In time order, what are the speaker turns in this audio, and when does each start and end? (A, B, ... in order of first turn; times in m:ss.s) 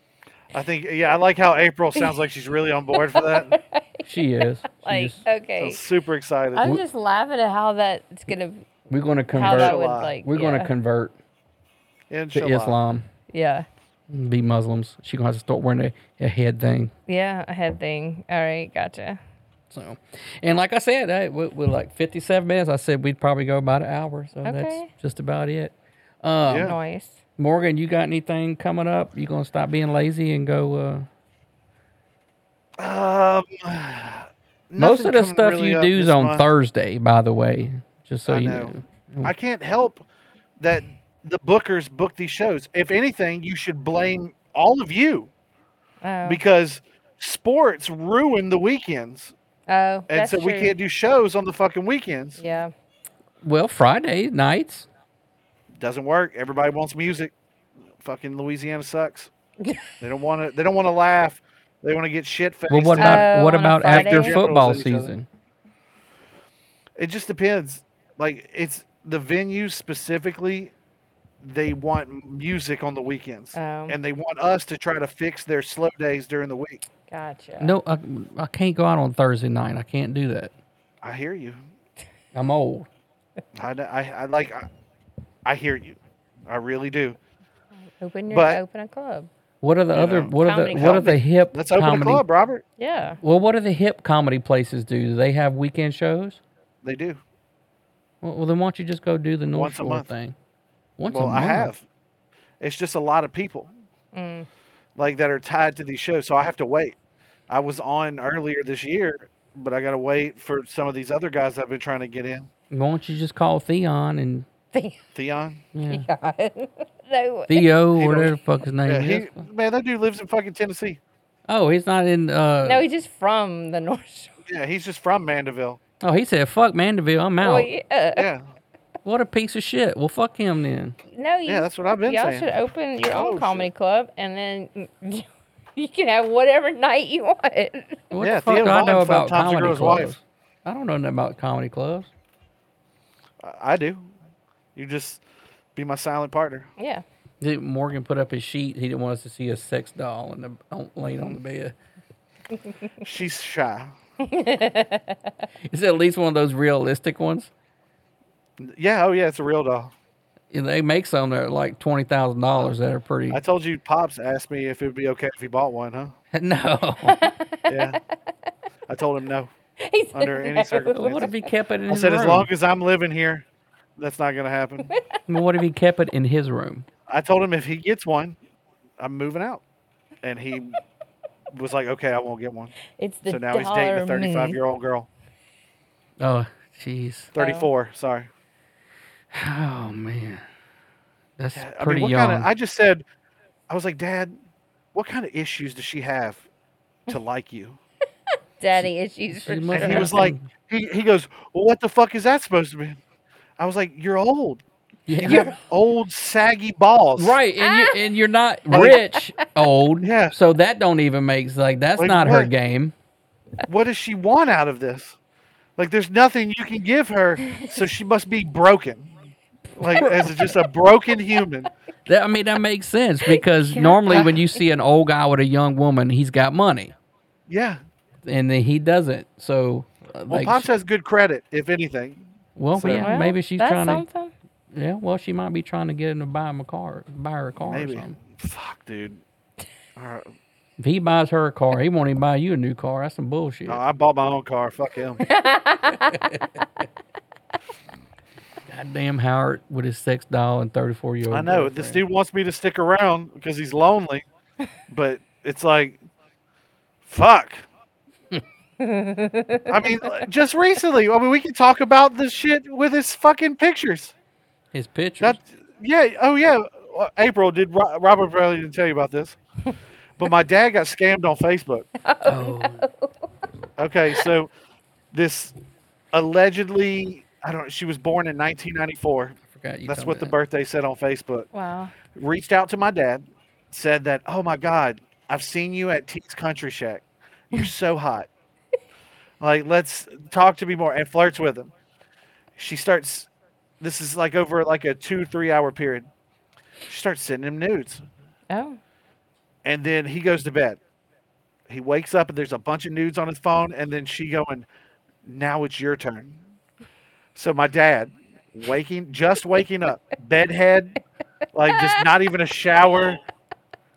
0:00.5-0:03.5 A
0:03.1-0:04.1 B
0:04.0-0:05.2 C
0:04.8-0:05.8 B
0:05.6-0:06.7 A
0:06.6-0:08.6 B
0:08.9-0:11.1 C
0:09.3-0:10.7 B
0:09.3-0:10.1 A
0:12.1-0:12.8 A
0:12.3-0:13.0 C
0:13.3-0:13.7 B
0:14.1-0:16.9 C
0:17.1-0:19.2 B
0:19.7-0:26.7 C
0:24.4-0:24.9 B
0:26.5-0:26.7 A
0:26.6-0:27.2 B
0:27.4-0:31.1 C
0:32.8-0:36.5 A
0:34.8-0:39.3 C
0:38.2-0:40.0 A
0:40.6-0:45.3 A
0:46.0-0:46.4 B
0:46.2-0:49.3 A
0:49.7-0:50.7 B
0:50.1-0:52.4 A
0:52.4-0:52.7 B
0:53.4-0:54.9 C
0:55.8-0:57.3 A
0:58.0-0:59.3 A
0:59.6-0:59.9 B
1:00.0-1:05.1 A
1:02.7-1:05.3 C
1:03.0-1:04.4 B
1:07.0-1:10.7 A
1:11.4-1:16.8 A
1:13.6-1:14.0 B
1:17.1-1:17.8 B
1:17.6-1:20.5 C
1:21.0-1:21.6 A
1:22.3-1:22.9 C
1:23.6-1:24.7 A
1:25.4-1:27.2 A
1:28.0-1:29.3 B
1:28.3-1:28.6 A
1:29.6-1:32.2 C
1:29.9-1:32.6 A
1:30.4-1:31.1 B
1:32.8-1:33.2 B
1:33.2-1:36.4 C
1:36.8-1:37.2 A
1:38.2-1:40.3 C
1:39.5-1:40.1 A
1:41.0-1:41.7 C
1:41.1-1:41.8 A
1:42.6-1:43.7 A
1:44.1-1:44.5 B
1:45.0-1:47.0 A
1:47.5-1:52.5 A
1:52.7-1:54.5 C
1:54.7-1:55.0 B
1:55.1-1:55.6 A
1:55.7-1:56.1 C
1:55.8-1:57.6 B
1:57.5-1:59.3 C
1:58.0-1:58.3 A
1:58.9-2:01.0 A
2:01.5-2:02.8 C
2:02.6-2:04.4 B
2:04.5-2:05.8 A
2:06.0-2:07.7 C
2:07.4-2:08.2 B
2:08.1-2:08.4 A
2:09.0-2:11.0 C
2:11.1-2:18.0 B
2:11.4-2:12.5 A
2:13.1-2:13.7 A
2:18.1-2:22.1 C
2:18.2-2:20.1 A
2:23.4-2:24.1 A
2:24.8-2:25.2 A
2:25.7-2:26.7 A
2:26.8-2:27.0 B
2:27.4-2:31.7 C
2:33.0-2:33.9 A
2:34.2-2:35.3 B
2:35.7-2:37.5 C
2:38.6-2:39.9 A
2:40.5-2:43.4 C
2:43.3-2:46.1 A
2:46.3-2:47.2 C
2:47.0-2:48.0 B
2:47.7-2:48.0 A
2:48.9-2:49.5 A
2:49.8-2:51.3 B
2:50.1-2:51.3 A
2:50.9-2:52.5 C
2:51.9-2:53.4 A
2:54.0-2:54.9 A
2:55.3-2:56.9 C
2:57.1-2:58.4 A
2:59.0-2:59.6 A
3:00.2-3:00.8 A
3:01.5-3:02.7 A
3:03.0-3:04.6 B
3:03.3-3:05.1 A
3:06.2-3:07.3 C
3:07.3-3:08.3 A
3:07.4-3:07.7 B
3:09.3-3:10.4 C
3:11.4-3:12.5 C
3:11.6-3:13.0 A
3:13.7-3:14.4 A
3:14.9-3:16.4 A
3:17.1-3:17.8 A
3:18.6-3:20.2 B
3:18.8-3:20.4 C
3:19.7-3:23.0 A
3:23.6-3:24.6 A
3:25.1-3:25.5 C
3:25.2-3:27.4 A
3:25.2-3:25.6 B
3:27.2-3:32.9 C
3:27.6-3:28.0 B
3:28.7-3:29.0 A
3:30.0-3:30.3 A
3:32.0-3:32.5 A
3:33.6-3:35.2 A
3:35.8-3:39.1 A
3:37.4-3:37.7 B
3:39.8-3:41.7 A
3:40.0-3:40.3 C
3:42.1-3:46.9 C
3:43.3-3:44.6 B
3:47.5-3:47.8 A
3:48.2-3:50.7 C
3:50.3-3:52.2 A
3:52.6-3:54.0 C
3:52.7-3:53.1 A
3:52.9-3:54.3 B
3:54.7-3:58.1 C
3:57.7-3:59.2 A
4:00.0-4:00.3 A
4:00.8-4:03.8 C
4:03.7-4:05.2 A
4:05.2-4:06.5 B
4:06.1-4:06.4 C
4:08.7-4:12.0 C
4:11.3-4:14.2 A
4:14.9-4:16.0 A
4:17.0-4:17.6 A
4:18.8-4:20.2 B
4:19.7-4:24.1 A
4:24.7-4:25.4 C
4:25.2-4:29.4 A
4:30.2-4:31.9 A
4:32.0-4:33.1 B
4:32.2-4:32.9 C
4:33.8-4:34.5 A
4:35.1-4:35.6 A
4:36.1-4:39.4 A
4:39.5-4:40.4 C
4:39.9-4:41.5 A
4:41.5-4:41.9 B
4:42.2-4:48.3 A
4:49.4-4:51.7 A
4:52.6-4:53.3 A
4:53.8-4:56.1 A
4:56.9-4:58.0 A
4:58.5-4:58.8 B
4:59.6-5:00.8 A
5:01.7-5:04.6 A
5:05.2-5:06.4 A
5:07.3-5:11.0 A
5:11.5-5:13.2 A